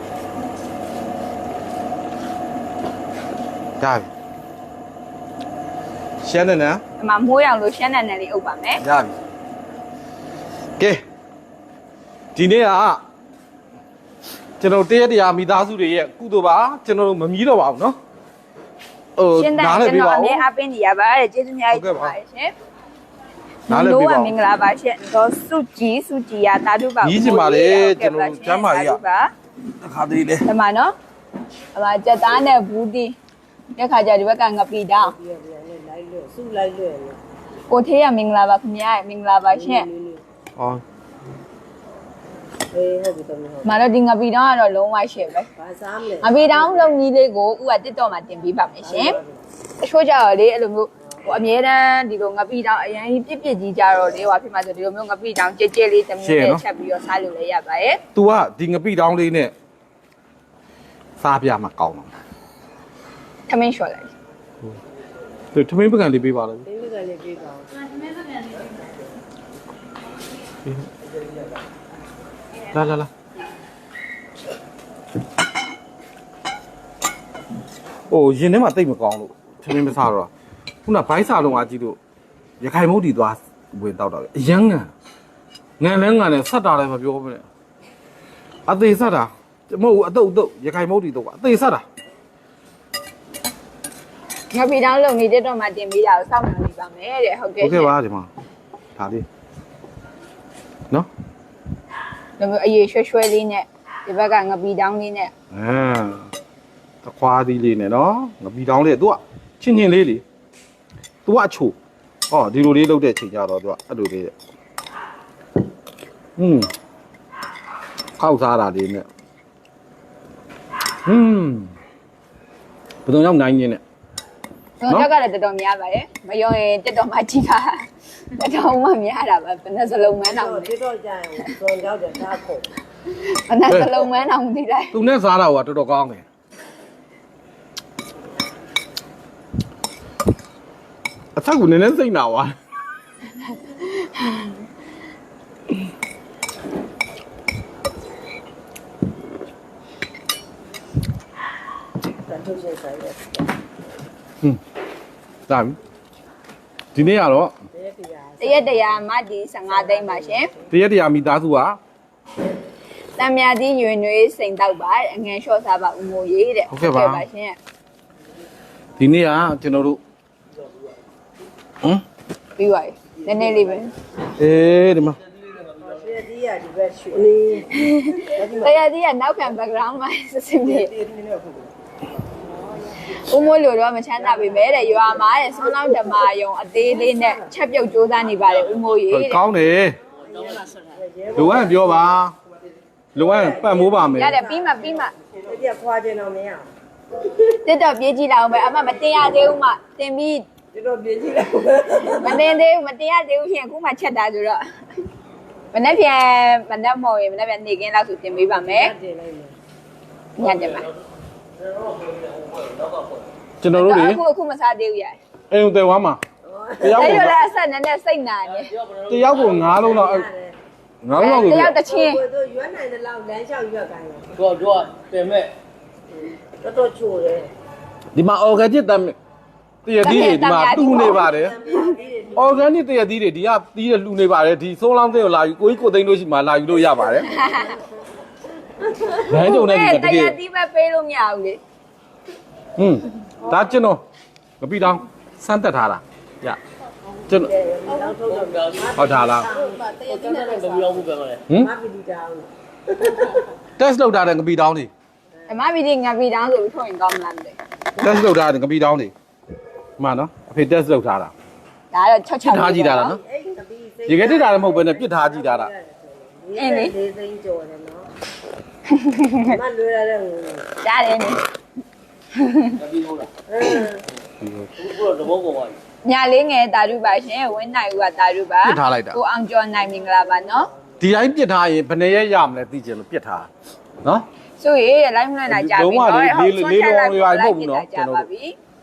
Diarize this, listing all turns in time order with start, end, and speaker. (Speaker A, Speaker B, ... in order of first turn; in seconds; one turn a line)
Speaker A: 3.8-4.1
Speaker A: 6.2-6.8
Speaker B: 7.0-8.8
Speaker A: 8.8-9.1
Speaker A: 10.8-11.0
Speaker A: 12.3-13.0
Speaker A: 14.6-18.0
Speaker A: 19.2-20.4
Speaker B: 19.4-22.5
Speaker A: 21.7-22.1
Speaker A: 23.7-24.3
Speaker B: 23.7-29.3
Speaker A: 27.0-29.0
Speaker A: 29.8-30.5
Speaker B: 30.4-30.9
Speaker B: 31.7-33.1
Speaker B: 33.8-35.1
Speaker C: 35.0-37.2
Speaker B: 37.7-39.9
Speaker C: 39.5-40.2
Speaker A: 40.6-40.8
Speaker C: 42.7-43.8
Speaker B: 43.6-45.5
Speaker C: 45.5-46.9
Speaker B: 46.2-49.2
Speaker C: 48.8-49.4
Speaker B: 49.8-58.0
Speaker A: 56.2-56.6
Speaker A: 58.1-59.5
Speaker A: 61.2-62.1
Speaker B: 63.5-64.1
Speaker A: 65.5-66.7
Speaker C: 66.7-68.5
Speaker A: 72.7-73.1
Speaker A: 78.1-80.3
Speaker A: 80.8-82.0
Speaker A: 82.6-84.9
Speaker A: 85.8-87.4
Speaker A: 88.7-91.8
Speaker B: 94.5-97.9
Speaker A: 97.6-98.3
Speaker A: 99.0-99.2
Speaker B: 102.4-105.3
Speaker A: 105.5-106.3
Speaker A: 107.0-110.2
Speaker A: 111.2-111.8
Speaker A: 112.3-114.3
Speaker A: 116.4-116.7
Speaker A: 118.2-119.0
Speaker A: 121.0-121.7
Speaker A: 123.0-123.8
Speaker B: 124.8-130.7
Speaker C: 130.2-132.7
Speaker B: 133.3-134.9
Speaker A: 133.7-134.0
Speaker A: 134.9-136.2
Speaker A: 141.3-142.5
Speaker B: 143.8-144.5
Speaker C: 152.2-153.5
Speaker A: 155.5-155.8
Speaker A: 156.9-157.5
Speaker C: 157.7-159.0
Speaker B: 158.4-160.5
Speaker C: 159.7-160.6
Speaker A: 160.7-161.8
Speaker B: 163.2-167.6
Speaker A: 166.7-167.2
Speaker A: 169.0-170.0
Speaker B: 172.6-173.9
Speaker A: 174.3-175.2
Speaker D: 175.3-175.9
Speaker C: 175.8-178.8
Speaker B: 177.7-180.9
Speaker C: 181.0-181.6
Speaker C: 182.8-183.2
Speaker B: 183.1-189.4
Speaker C: 184.2-187.5
Speaker A: 189.1-190.0
Speaker D: 190.2-191.0
Speaker C: 190.3-192.1
Speaker A: 191.3-192.3
Speaker A: 193.1-194.4
Speaker C: 193.2-196.7
Speaker B: 194.1-195.1
Speaker B: 197.5-200.4
Speaker C: 200.7-202.6
Speaker B: 202.2-204.6
Speaker B: 205.7-208.9
Speaker C: 208.5-209.6
Speaker B: 210.4-210.9
Speaker D: 210.4-210.9
Speaker D: 211.5-213.3
Speaker A: 213.6-214.2
Speaker B: 213.8-215.2
Speaker A: 215.5-216.2
Speaker C: 216.4-217.4
Speaker A: 216.8-217.3
Speaker B: 216.9-218.7
Speaker D: 218.4-220.0
Speaker A: 219.1-220.3
Speaker C: 219.5-220.6
Speaker A: 221.0-221.8
Speaker B: 221.1-222.2
Speaker C: 221.4-224.3
Speaker D: 224.3-225.5
Speaker C: 226.2-227.5
Speaker A: 228.1-229.2
Speaker A: 229.8-231.6
Speaker B: 230.0-231.9
Speaker C: 230.1-232.7
Speaker A: 232.3-237.3
Speaker B: 237.3-237.8
Speaker C: 237.3-237.8
Speaker C: 238.6-239.4
Speaker A: 239.2-240.4
Speaker B: 239.4-241.6
Speaker A: 242.8-244.0
Speaker A: 244.6-246.6
Speaker C: 247.3-253.5
Speaker D: 247.9-251.4
Speaker A: 248.9-249.5
Speaker A: 253.8-254.9
Speaker B: 255.5-257.6
Speaker A: 258.0-259.1
Speaker A: 260.0-261.3
Speaker B: 261.9-263.1
Speaker A: 262.4-263.2
Speaker C: 262.8-268.1
Speaker A: 264.1-265.7
Speaker B: 266.6-266.9
Speaker B: 268.9-269.6
Speaker C: 269.4-270.7
Speaker B: 270.8-271.4
Speaker B: 272.3-272.8
Speaker D: 272.8-273.3
Speaker C: 273.5-274.0
Speaker A: 274.4-274.7
Speaker D: 274.8-275.8
Speaker B: 276.0-280.7
Speaker A: 278.6-279.2
Speaker A: 281.0-283.5
Speaker B: 284.6-288.5
Speaker A: 285.5-288.3